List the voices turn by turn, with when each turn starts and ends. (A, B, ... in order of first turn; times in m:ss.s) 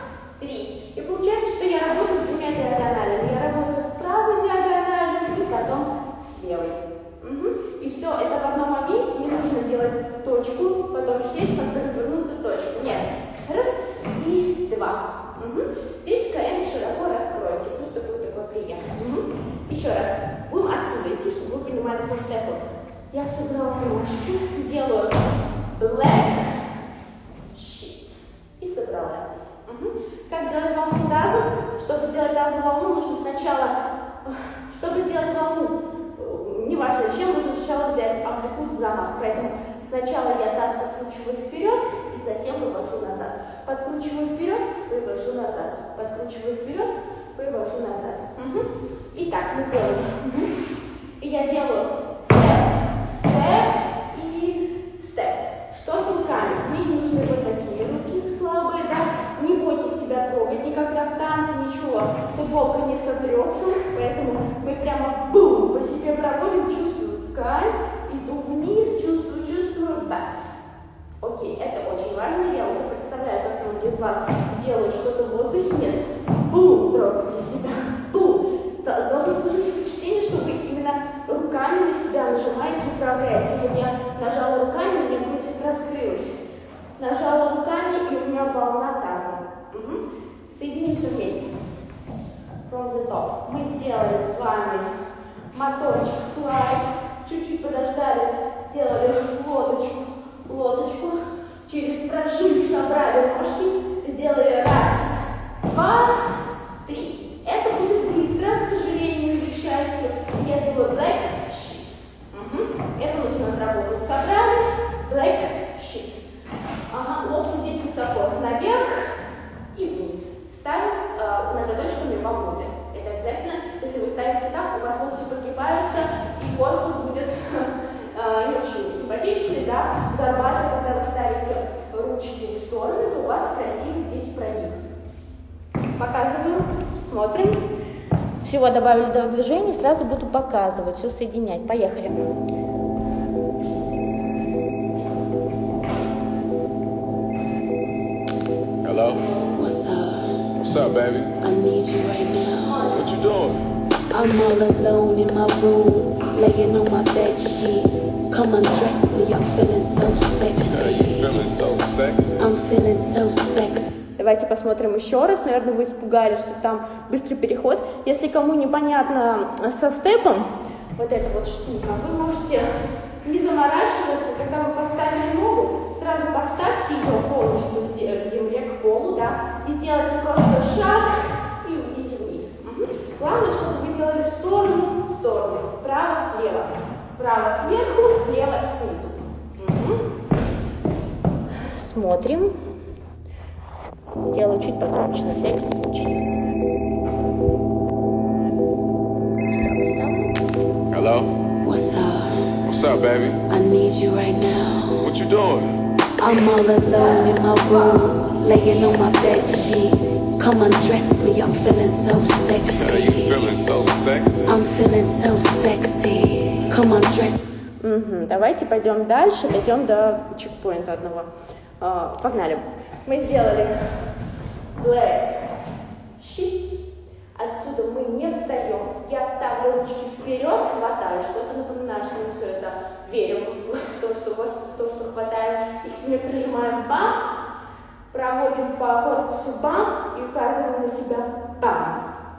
0:00.4-0:26.6 A
0:27.5-0:33.7 A
0:34.2-0:50.6 A
0:51.2-1:10.5 A
1:11.2-1:26.3 A
1:27.0-1:31.5 A
1:32.6-1:34.9 A
1:35.5-1:56.3 A
1:56.9-2:14.8 A
2:16.0-2:17.6 A
2:18.4-2:22.2 A
2:28.8-2:29.2 B
2:29.5-2:30.4 C
2:30.6-2:31.4 B
2:31.4-2:32.8 C
2:32.6-2:33.0 A
2:33.0-2:33.6 B
2:34.1-2:41.2 C
2:40.7-2:42.4 B
2:42.4-2:44.0 C
2:44.2-2:52.7 A
2:53.2-3:10.0 A
3:11.6-3:12.6 A
3:14.3-3:16.2 A
3:19.4-3:20.4 A
3:20.9-3:21.3 B
3:21.6-3:22.6 C
3:22.7-3:23.4 B
3:23.5-3:25.0 C
3:25.0-3:25.7 B
3:26.2-3:32.7 C
3:26.9-3:28.1 A
3:32.7-3:34.6 B
3:34.5-3:37.4 C
3:37.8-3:44.0 A
3:44.8-3:45.5 A
3:46.2-3:46.8 A
3:47.4-3:57.2 A
3:58.1-4:02.1 A